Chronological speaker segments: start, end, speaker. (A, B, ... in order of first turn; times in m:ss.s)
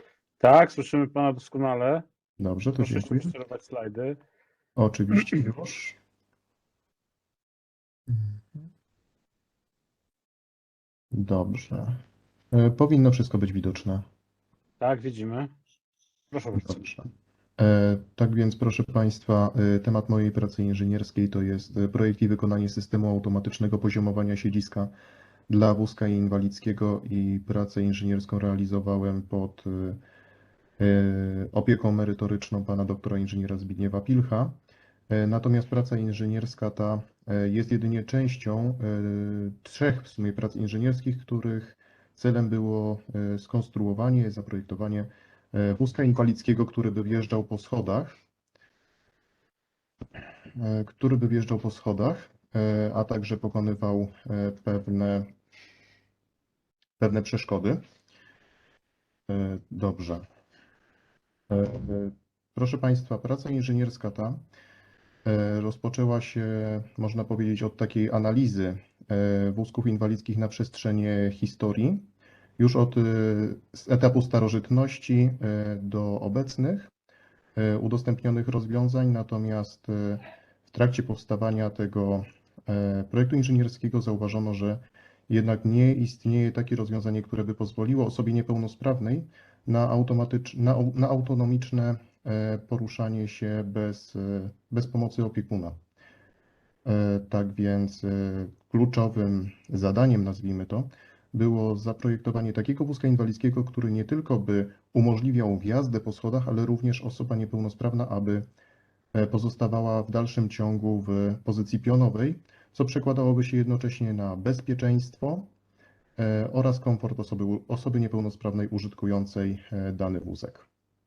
0:00.4-0:02.0 A
0:02.4-0:03.4 B
0:02.8-0:04.2 A
0:04.8-0:06.0 B
0:08.1-0:08.4 B
0:11.1-0:12.0 B
0:12.5-0:14.1 B
0:14.8-0:15.5 A
0:16.3-0:16.8 A
0:16.6-0:24.9 B
0:25.5-0:30.0 B
0:30.8-0:34.6 B
0:35.1-0:48.2 B
0:50.5-0:55.3 B
0:57.0-0:57.8 B
0:59.3-1:00.3 B
1:01.5-1:04.4 B
1:05.2-1:12.0 B
1:12.6-1:16.9 B
1:17.6-1:35.8 B
1:36.8-1:48.4 B
1:49.1-1:55.5 B
1:56.2-2:00.7 B